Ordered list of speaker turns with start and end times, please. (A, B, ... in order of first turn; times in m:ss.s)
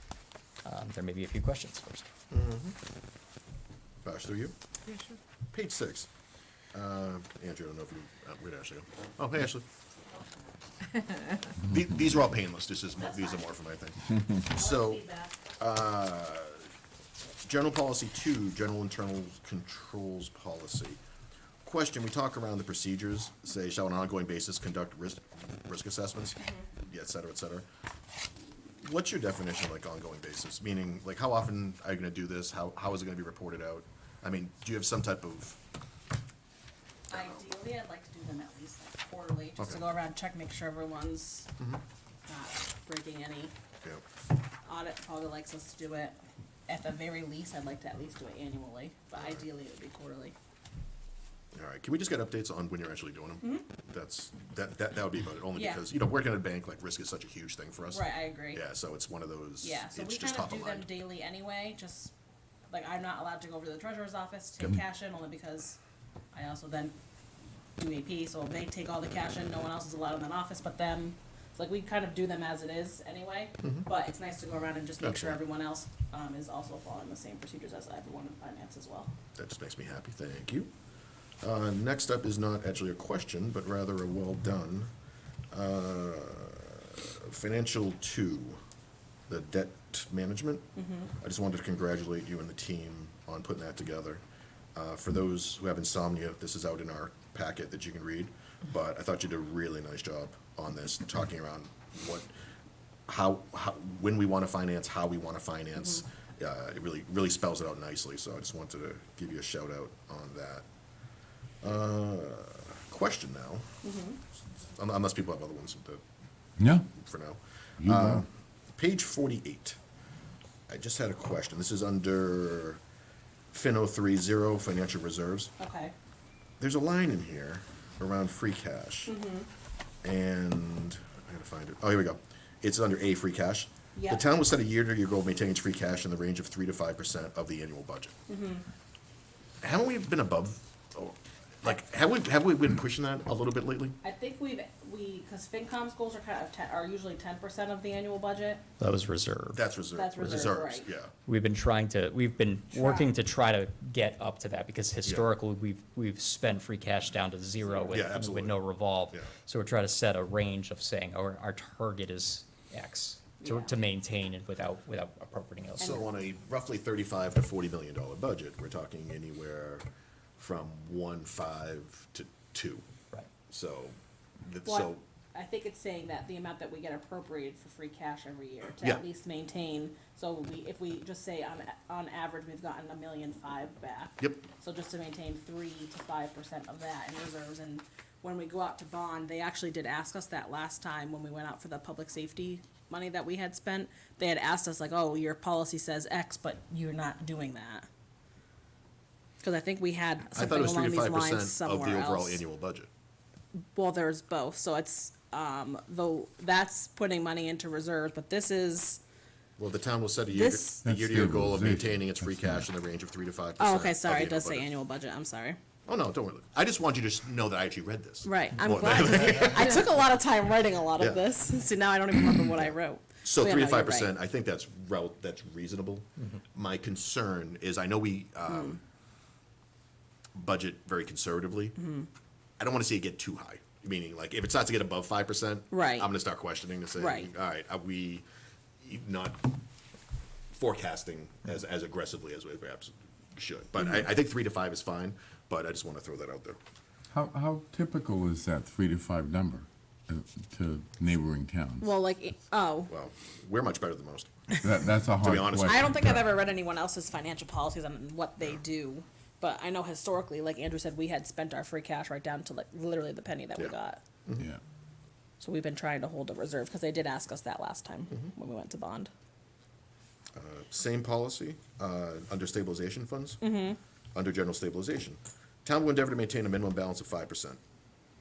0:00.6-0:02.1 A
0:02.3-0:02.8 B
0:04.0-0:04.5 B
0:05.5-0:06.1 B
0:06.7-0:09.6 B
0:11.6-0:16.7 B
0:14.5-0:15.3 C
0:17.4-0:21.0 B
0:21.6-0:27.7 B
0:26.4-0:26.6 C
0:28.8-0:35.6 B
0:37.1-0:41.5 C
0:42.3-0:43.6 C
0:44.6-0:46.2 C
0:46.7-0:50.4 C
0:49.2-0:49.4 B
0:51.5-1:00.9 B
0:55.6-0:55.8 C
0:57.9-0:58.6 C
0:59.6-1:02.1 C
1:02.7-1:05.8 C
1:06.3-1:07.0 C
1:07.8-1:19.1 C
1:15.0-1:15.4 B
1:19.4-1:20.7 B
1:21.4-1:24.9 B
1:25.5-1:28.6 B
1:29.3-1:34.2 B
1:30.8-1:31.1 C
1:34.8-1:42.3 B
1:43.1-1:50.6 B
1:51.6-1:53.8 B
1:53.8-1:54.2 C
1:54.8-1:56.0 B
1:56.6-1:56.9 D
1:57.0-1:59.8 B
1:57.8-1:58.2 D
2:00.7-2:02.8 B
2:03.5-2:05.5 B
2:05.6-2:05.9 C
2:06.6-2:09.1 B
2:09.1-2:09.5 C
2:10.0-2:18.1 B
2:13.9-2:14.2 C
2:18.3-2:18.7 C
2:19.6-2:24.0 B
2:24.0-2:28.6 C
2:28.8-2:29.6 A
2:29.5-2:31.1 B
2:29.9-2:30.9 C
2:31.3-2:46.0 A
2:32.7-2:33.1 C
2:37.9-2:38.6 B
2:43.4-2:43.8 C
2:45.8-2:49.8 B
2:50.4-2:52.8 B
2:53.5-2:55.0 B
2:54.6-3:17.9 C
3:04.2-3:04.5 B
3:19.4-3:22.4 C
3:20.3-3:22.9 B
3:23.8-3:29.0 C
3:29.6-3:34.7 B
3:30.3-3:30.8 C
3:30.8-3:32.6 D
3:33.6-3:35.6 C
3:35.9-3:39.8 B
3:38.2-3:44.1 C
3:41.0-3:41.3 B
3:43.2-3:48.8 B
3:48.5-3:48.8 C
3:50.3-3:51.8 B
3:51.8-3:52.1 C
3:52.6-3:58.2 B
3:55.7-3:56.1 C
3:57.0-3:57.3 C
3:58.8-3:59.5 B
4:00.5-4:06.6 B
4:07.1-4:11.9 D
4:11.8-4:12.9 C
4:12.9-4:14.6 B
4:14.6-4:16.2 D
4:15.2-4:16.0 B
4:15.6-4:24.0 C
4:23.6-4:24.5 B
4:25.4-4:29.1 C
4:30.3-4:33.4 B
4:33.4-4:33.8 C
4:34.2-4:37.6 B